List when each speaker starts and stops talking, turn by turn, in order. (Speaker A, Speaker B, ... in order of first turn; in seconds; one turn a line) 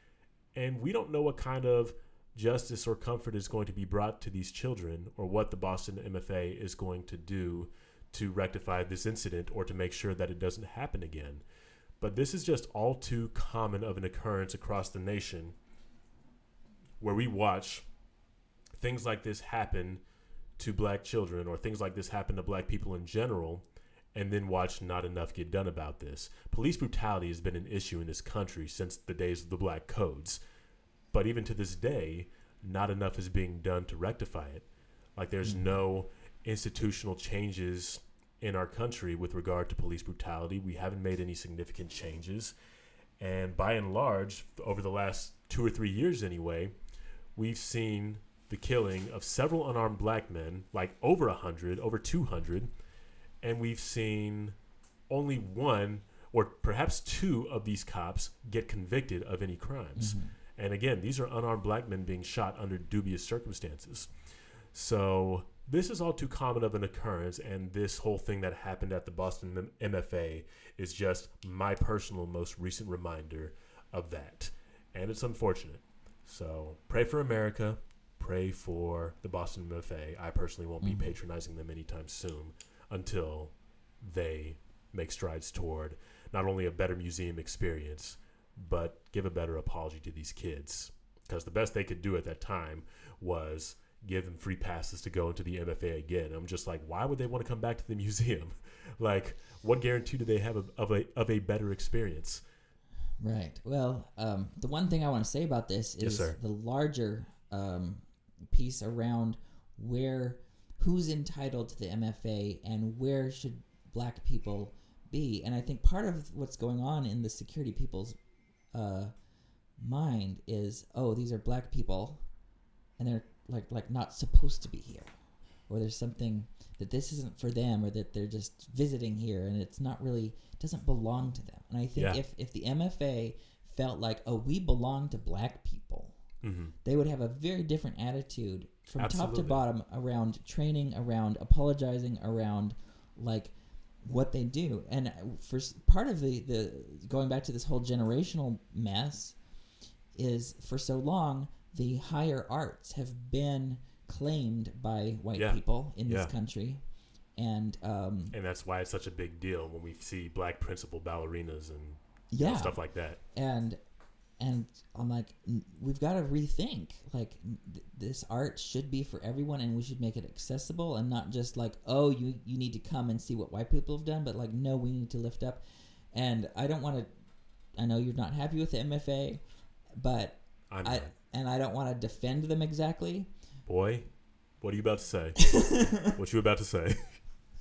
Speaker A: 0.5-11.4
Speaker A: 12.0-15.6
Speaker A: 17.0-17.9
Speaker A: 18.7-20.0
Speaker A: 20.6-30.4
Speaker A: 31.1-42.5
Speaker B: 35.4-35.7
Speaker A: 43.2-46.7
Speaker A: 47.4-52.7
Speaker A: 53.4-54.5
Speaker A: 55.1-64.1
Speaker B: 60.0-60.3
Speaker A: 64.7-102.4
Speaker B: 80.8-81.1
Speaker B: 103.2-118.2
Speaker A: 106.0-106.4
Speaker B: 118.7-119.1
Speaker B: 119.8-122.2
Speaker B: 123.0-125.1
Speaker B: 125.7-136.2
Speaker A: 131.9-132.2
Speaker A: 136.4-136.7
Speaker B: 136.8-149.4
Speaker A: 139.0-139.6
Speaker B: 150.1-156.8
Speaker A: 155.3-156.3
Speaker B: 157.3-158.3
Speaker A: 158.3-163.2
Speaker B: 162.3-162.8
Speaker B: 163.3-163.8
Speaker B: 164.4-175.6
Speaker B: 176.1-177.1
Speaker B: 177.8-179.4
Speaker B: 180.0-183.3
Speaker A: 180.7-181.1
Speaker A: 183.7-184.1
Speaker A: 184.6-187.2
Speaker B: 185.4-186.1